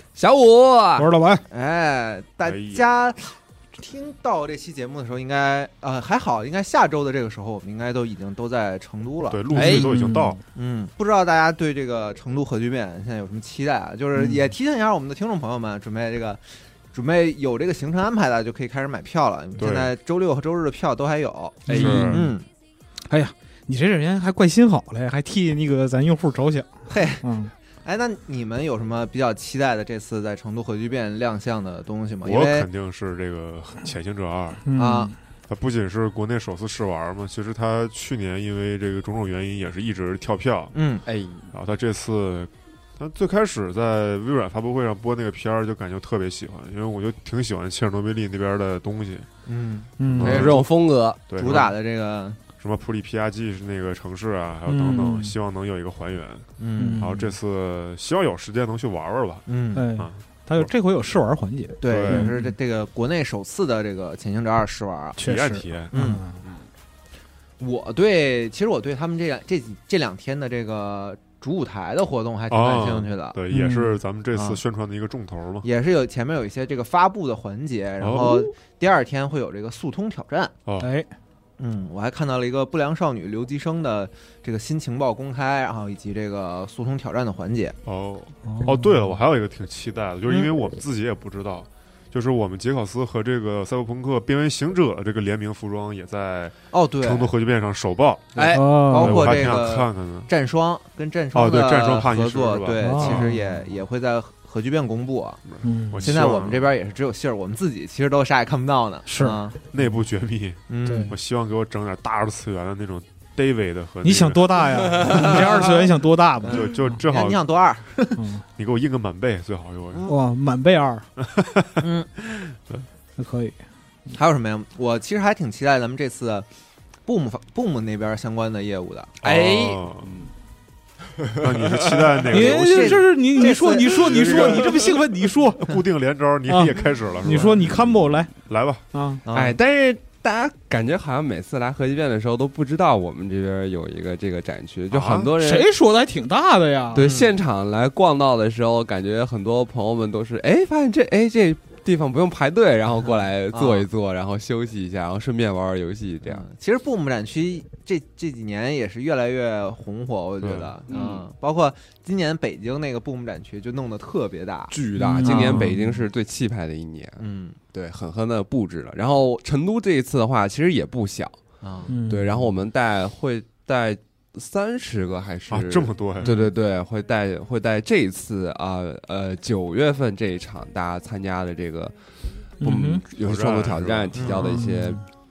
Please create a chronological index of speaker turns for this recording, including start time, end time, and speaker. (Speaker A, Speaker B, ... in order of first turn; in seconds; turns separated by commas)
Speaker A: 0.2-1.1, Speaker B: 1.0-1.4, Speaker C: 1.5-9.4, Speaker D: 2.4-2.9, Speaker D: 9.3-10.4, Speaker B: 9.5-10.4, Speaker A: 9.5-9.9, Speaker C: 10.6-16.4, Speaker C: 16.9-22.5, Speaker D: 19.6-19.9, Speaker A: 21.7-22.2, Speaker B: 21.7-22.3, Speaker D: 21.7-22.3, Speaker B: 23.1-27.5, Speaker C: 26.9-27.2, Speaker C: 27.8-32.7, Speaker D: 32.2-34.6, Speaker B: 34.7-35.1, Speaker C: 34.8-35.1, Speaker D: 35.5-40.8, Speaker C: 40.7-41.0, Speaker A: 41.1-41.5, Speaker D: 41.5-49.3, Speaker C: 49.5-50.5, Speaker B: 50.0-50.5, Speaker D: 50.0-50.7, Speaker A: 50.2-51.2, Speaker D: 51.3-51.8, Speaker C: 51.3-52.4, Speaker D: 52.6-60.7, Speaker B: 54.7-55.4, Speaker C: 56.6-57.2, Speaker B: 56.8-57.3, Speaker C: 59.5-59.9, Speaker B: 59.7-62.5, Speaker C: 61.8-65.2, Speaker D: 61.8-62.3, Speaker B: 65.2-66.6, Speaker D: 65.2-65.9, Speaker C: 65.9-66.2, Speaker C: 67.6-73.4, Speaker D: 72.5-75.7, Speaker B: 73.5-74.0, Speaker C: 74.3-74.6, Speaker C: 75.6-80.5, Speaker D: 78.0-78.5, Speaker B: 80.8-81.1, Speaker C: 81.6-87.8, Speaker D: 87.9-98.4, Speaker B: 88.5-89.2, Speaker C: 96.7-97.3, Speaker A: 98.4-98.6, Speaker B: 98.4-99.3, Speaker C: 98.4-105.4, Speaker D: 98.9-100.3, Speaker D: 101.3-103.4, Speaker B: 102.8-103.4, Speaker D: 105.5-106.7, Speaker B: 105.6-106.1, Speaker C: 106.0-109.6, Speaker B: 109.1-109.4, Speaker D: 109.7-115.7, Speaker C: 110.7-111.1, Speaker B: 110.8-111.2, Speaker B: 114.0-117.0, Speaker C: 116.4-118.2, Speaker D: 116.4-117.4, Speaker B: 118.2-118.4, Speaker D: 118.6-120.1, Speaker B: 120.1-121.1, Speaker D: 121.2-122.9, Speaker C: 121.8-122.1, Speaker B: 123.2-123.6, Speaker C: 124.1-126.5, Speaker C: 127.1-129.2, Speaker D: 129.2-130.2, Speaker A: 129.2-130.3, Speaker D: 131.3-133.1, Speaker A: 131.4-132.2, Speaker B: 132.3-135.8, Speaker C: 132.3-134.8, Speaker D: 133.8-134.9, Speaker D: 135.6-138.8, Speaker B: 136.5-138.3, Speaker B: 138.9-139.2, Speaker C: 139.2-139.6, Speaker A: 139.3-145.7, Speaker D: 144.9-145.3, Speaker B: 145.4-147.1, Speaker A: 146.9-156.4, Speaker C: 147.0-147.3, Speaker C: 153.0-153.9, Speaker C: 156.2-165.9, Speaker D: 160.4-160.8, Speaker A: 160.9-161.3, Speaker A: 164.7-167.2, Speaker B: 165.0-165.8, Speaker C: 167.2-167.6, Speaker A: 167.7-171.4, Speaker C: 171.6-172.4, Speaker B: 171.9-172.3, Speaker A: 172.1-181.9, Speaker D: 175.5-176.3, Speaker C: 176.2-176.5, Speaker A: 182.6-185.0, Speaker B: 182.6-183.0, Speaker D: 183.2-184.4, Speaker C: 184.2-184.5, Speaker B: 184.4-185.0